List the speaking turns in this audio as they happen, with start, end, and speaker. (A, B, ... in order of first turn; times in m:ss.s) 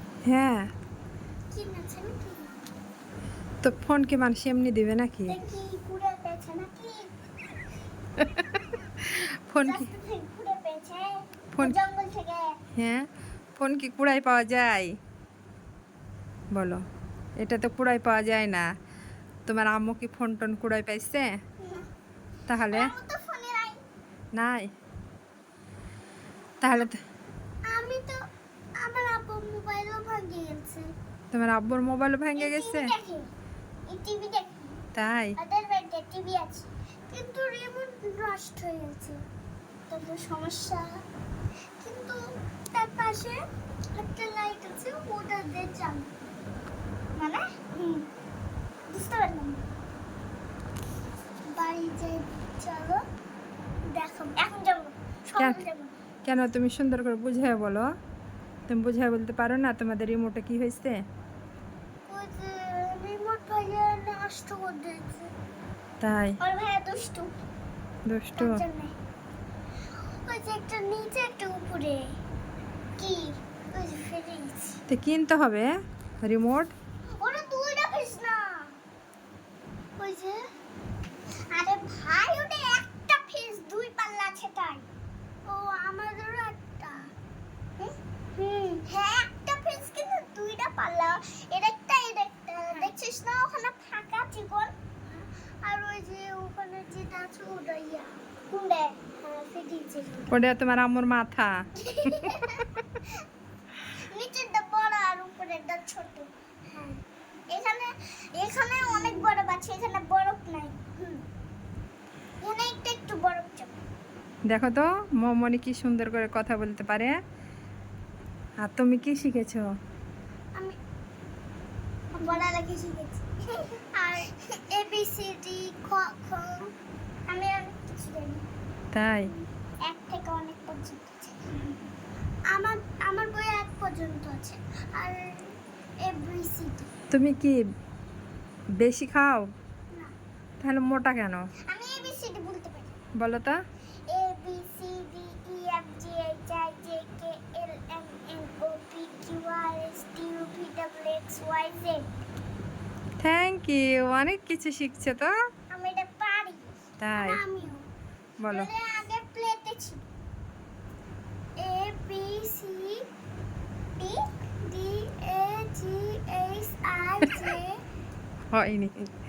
0:00.2-0:00.7 A
0:01.5-0:02.6 B
0:03.6-0:05.3 A
0:05.3-0:07.1 B
0:09.5-0:09.9 A
0:09.6-0:12.5 B
0:12.8-0:13.0 A
0:13.6-0:14.9 A
0:16.5-0:16.8 A
0:17.4-0:18.7 A
0:19.5-0:21.3 A
0:21.6-0:21.9 B
0:22.5-0:22.9 A
0:22.7-0:23.8 B
0:24.4-0:24.7 A
0:26.6-0:27.0 A
0:27.7-0:28.2 B
0:28.8-0:30.9 B
0:31.3-0:32.9 A
0:32.4-0:33.3 B
0:33.9-0:34.8 B
0:35.0-0:35.3 A
0:35.4-0:39.2 B
0:39.9-0:41.0 B
0:41.8-0:42.2 B
0:42.7-0:43.4 B
0:44.0-0:46.1 B
0:47.2-0:48.1 B
0:48.9-0:49.7 B
0:51.5-0:53.0 B
0:53.9-0:55.9 B
0:56.2-0:57.9 A
0:58.7-1:01.0 A
1:02.1-1:05.3 B
1:06.0-1:06.4 A
1:06.4-1:07.3 B
1:08.1-1:08.6 A
1:08.4-1:08.9 B
1:10.2-1:12.1 B
1:13.0-1:14.8 B
1:14.9-1:15.7 A
1:16.2-1:16.7 A
1:17.2-1:18.8 B
1:20.0-1:20.4 B
1:21.5-1:24.9 B
1:25.5-1:27.1 B
1:27.8-1:40.3 B
1:40.3-1:41.5 A
1:41.8-1:42.7 B
1:44.0-1:47.0 B
1:47.5-1:51.2 B
1:52.4-1:53.8 B
1:54.5-1:57.1 A
1:58.6-1:59.7 A
2:02.1-2:06.7 B
2:07.3-2:08.4 B
2:08.9-2:09.3 A
2:09.8-2:11.7 B
2:12.5-2:15.5 B
2:16.0-2:16.9 B
2:17.1-2:17.6 A
2:18.8-2:19.4 A
2:20.6-2:21.4 A
2:21.7-2:22.9 B
2:23.2-2:23.6 A
2:24.1-2:32.2 B
2:33.2-2:35.3 A
2:35.7-2:37.9 B
2:37.0-2:37.4 A
2:38.4-2:38.7 A
2:38.5-2:40.0 B
2:41.6-2:43.0 B
2:44.0-2:47.8 B
2:48.5-2:49.1 A